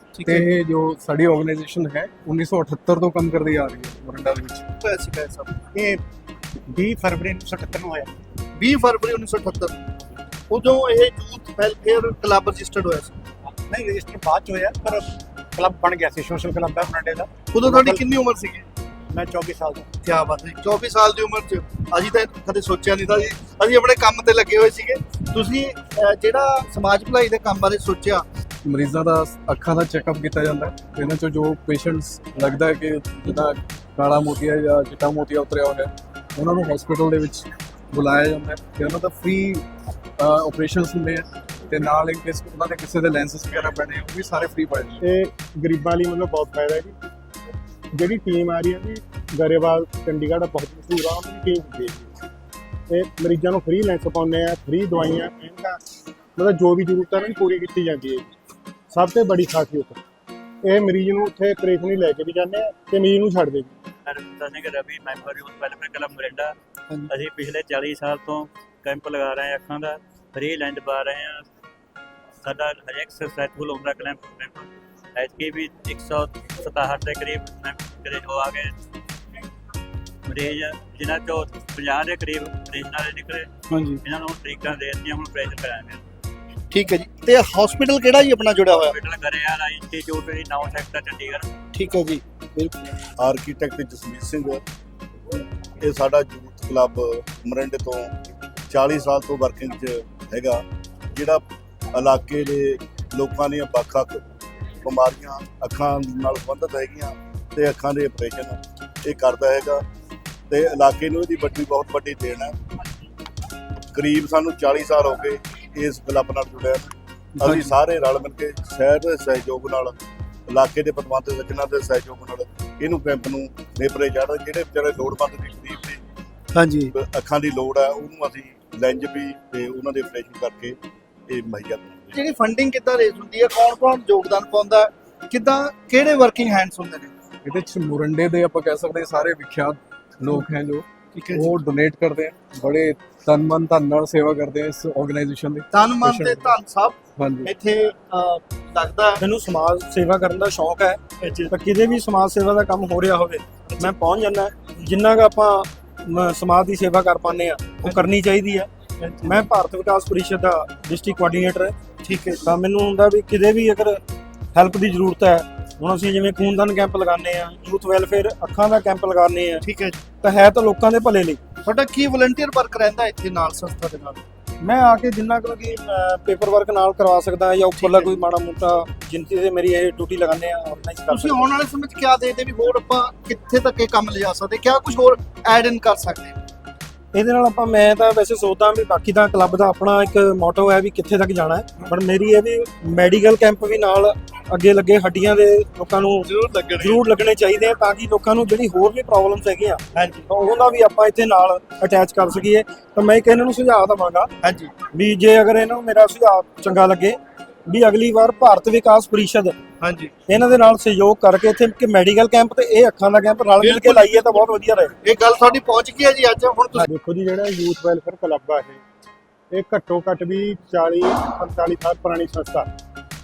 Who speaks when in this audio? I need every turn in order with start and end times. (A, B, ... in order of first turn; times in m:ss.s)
0:00.2-0:00.5 A
0:00.2-0:04.6 B
0:04.8-0:05.6 A
0:05.7-0:06.0 C
0:06.7-0:08.1 C
0:08.5-0:09.8 A
0:10.5-0:13.2 A
0:13.7-0:18.0 C
0:17.5-0:18.7 A
0:19.1-0:19.9 C
0:20.0-0:28.2 A
0:28.6-0:39.6 B
0:40.2-0:45.0 B
0:45.0-0:46.9 D
0:47.9-0:52.1 D
0:52.9-0:55.8 D
0:56.4-0:58.3 D
0:58.9-1:00.0 D
1:00.6-1:03.8 D
1:04.0-1:06.5 E
1:07.1-1:11.4 E
1:12.4-1:18.7 E
1:20.3-1:23.5 E
1:23.7-1:24.0 A
1:24.0-1:26.0 E
1:26.7-1:29.0 A
1:28.7-1:31.4 E
1:31.7-1:32.9 A
1:33.2-1:34.6 F
1:35.8-1:38.1 F
1:38.7-1:44.2 F
1:44.8-1:49.8 F
1:50.5-1:52.5 F
1:53.9-2:00.0 F
1:57.4-1:57.7 A
2:00.5-2:06.0 F
2:06.5-2:06.9 A
2:06.9-2:10.8 F
2:11.3-2:12.2 F
2:12.1-2:17.1 A
2:17.4-2:26.3 B
2:21.1-2:21.6 A
2:25.7-2:29.2 A
2:27.2-2:27.5 B
2:29.2-2:38.7 G
2:31.2-2:31.5 A
2:39.0-2:39.4 A
2:39.2-2:41.7 G
2:42.0-2:42.4 A
2:42.4-2:44.0 G
2:44.5-2:49.7 G
2:49.6-2:50.0 A
2:50.2-2:51.4 G
2:51.6-2:54.2 A
2:54.6-3:01.5 G
2:57.8-2:58.2 A
3:01.1-3:06.4 A
3:07.1-3:24.3 G
3:16.2-3:17.0 A
3:19.9-3:20.3 A
3:24.4-3:24.7 A
3:24.8-3:29.6 G
3:29.8-3:30.1 A
3:30.3-3:34.9 G
3:33.6-3:36.9 A
3:36.9-3:38.8 D
3:39.5-3:42.7 D